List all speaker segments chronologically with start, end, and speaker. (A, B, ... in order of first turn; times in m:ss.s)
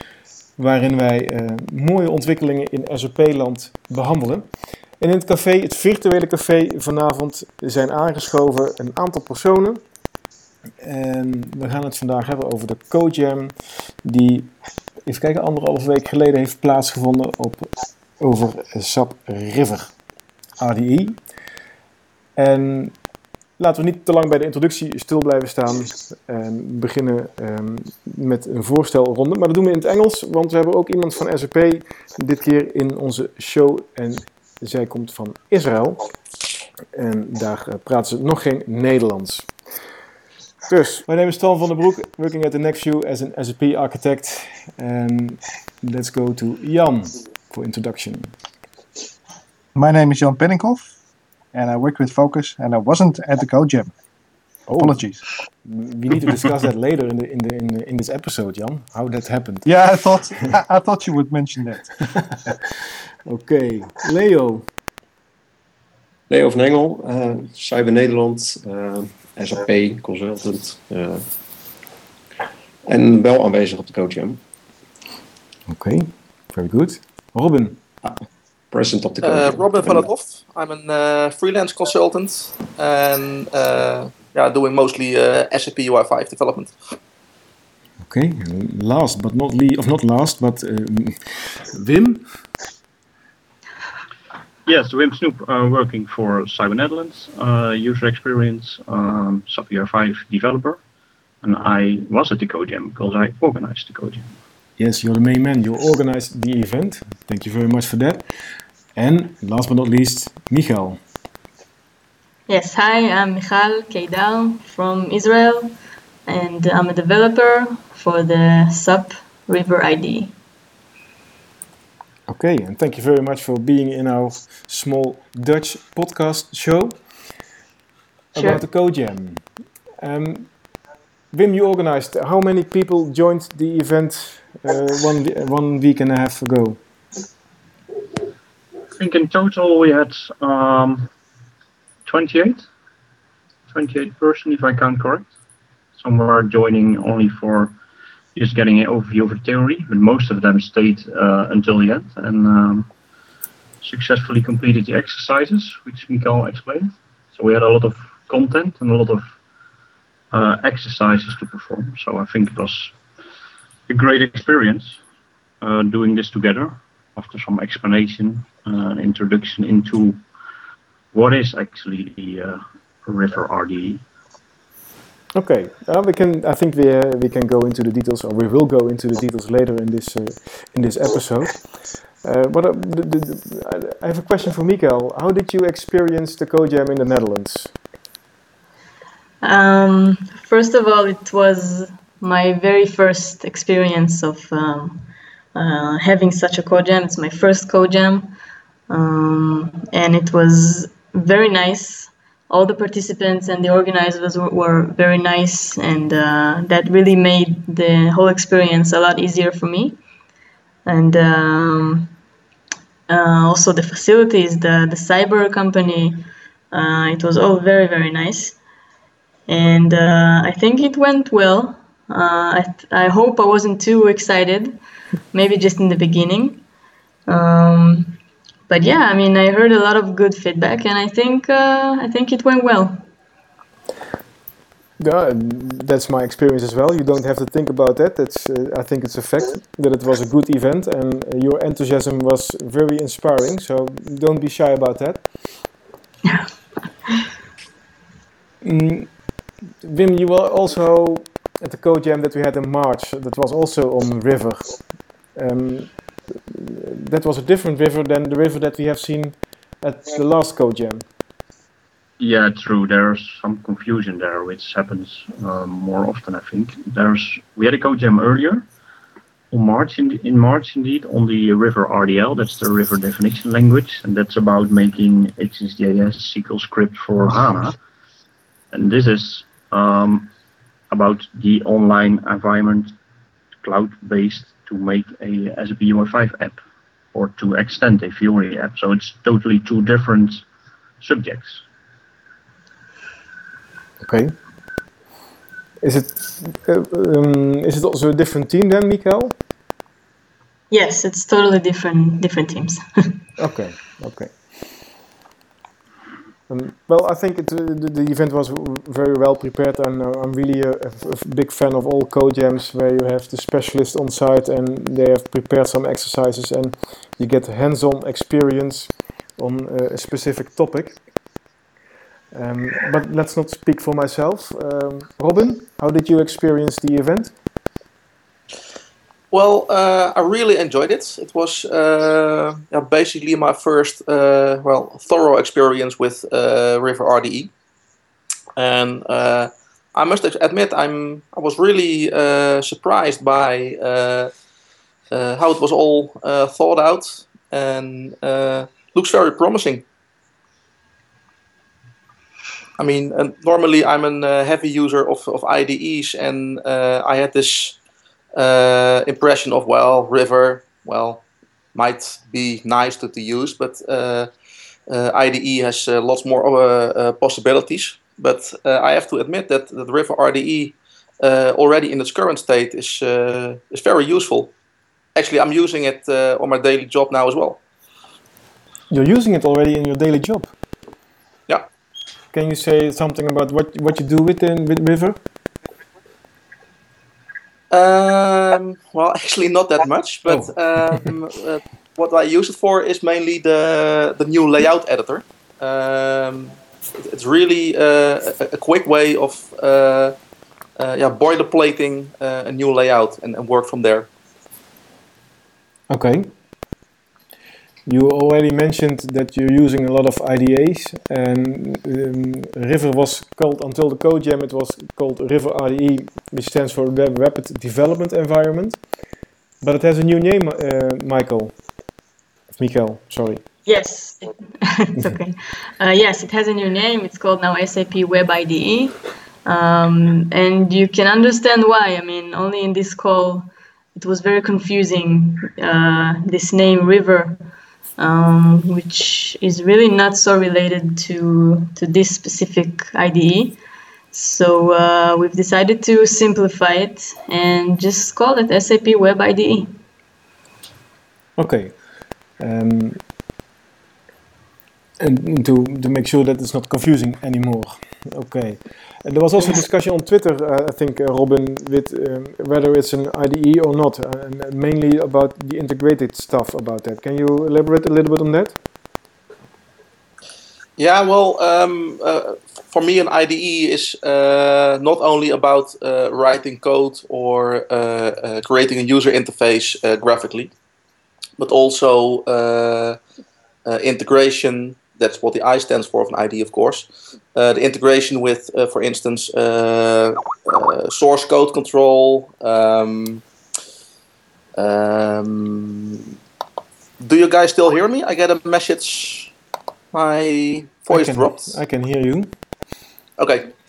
0:00.6-0:09.8 A
0:10.8-0:14.5 A
0:15.0-0:19.9 A
0:20.6-0:21.2 A
0:22.4-0:23.0 A
0:23.6-0:36.1 A
0:36.9-0:39.5 A
0:40.7-0:48.4 A
0:49.8-0:50.9 B
0:51.5-0:53.9 B
0:54.7-0:55.0 A
0:54.8-0:55.2 B
0:55.6-0:59.7 A
0:59.6-1:01.9 B
1:03.3-1:04.7 A
1:06.3-1:11.3 C
1:12.9-1:14.4 C
1:15.7-1:17.8 A
1:18.0-1:20.1 C
1:19.2-1:26.7 D
1:28.0-1:32.2 A
1:34.7-1:40.8 E
1:41.4-1:44.3 E
1:44.8-1:48.2 A
1:49.0-1:51.0 A
1:52.5-1:55.7 F
1:56.2-2:00.4 F
2:02.3-2:07.1 A
2:08.3-2:09.5 A
2:08.4-2:08.6 F
2:10.0-2:10.6 A
2:11.3-2:16.8 A
2:18.9-2:21.1 E
2:22.1-2:22.7 E
2:23.7-2:25.3 E
2:26.0-2:27.7 E
2:28.4-2:32.9 E
2:33.8-2:39.2 E
2:40.3-2:43.0 E
2:43.9-2:45.0 E
2:45.6-2:50.2 E
2:51.1-2:54.0 E
2:55.4-3:01.6 A
3:02.2-3:07.7 A
3:09.4-3:18.3 F
3:18.9-3:30.0 F
3:30.8-3:32.1 F
3:33.1-3:38.6 F
3:39.5-3:44.8 F
3:45.3-3:46.6 F
3:47.3-3:48.2 F
3:48.7-3:53.0 F
3:55.0-4:05.3 A
4:06.2-4:06.5 F
4:08.6-4:09.2 A
4:09.8-4:14.8 A
4:15.3-4:21.0 A
4:22.2-4:28.7 E
4:29.5-4:37.8 E
4:38.7-4:40.3 E
4:40.9-4:42.9 E
4:43.6-4:46.6 E
4:47.1-4:50.4 E
4:51.0-4:51.6 E
4:54.0-4:54.4 A
4:55.8-4:59.4 A
5:00.7-5:03.2 F
5:03.4-5:04.5 A
5:06.5-5:21.0 A
5:22.3-5:27.4 A
5:29.3-5:37.5 D
5:38.6-5:44.3 D
5:45.1-5:49.8 D
5:52.8-5:57.8 D
5:58.3-6:01.2 D
6:01.8-6:04.3 D
6:04.9-6:14.5 D
6:15.2-6:17.6 D
6:18.9-6:20.5 A
6:22.3-6:25.2 A
6:27.7-6:40.2 D
6:40.8-6:44.1 D
6:45.9-6:46.3 A
6:47.9-6:58.8 A
6:59.6-7:01.6 A
7:02.6-7:03.4 A
7:03.7-7:17.4 F
7:18.0-7:23.6 F
7:24.1-7:29.8 F
7:31.4-7:31.8 A
7:32.4-7:33.0 A
7:35.0-7:48.6 A
7:50.8-8:00.5 D
8:01.4-8:03.0 D
8:03.7-8:13.2 D
8:14.6-8:16.1 D
8:17.0-8:19.3 D
8:19.9-8:21.6 D
8:20.9-8:22.3 A
8:23.2-8:23.5 D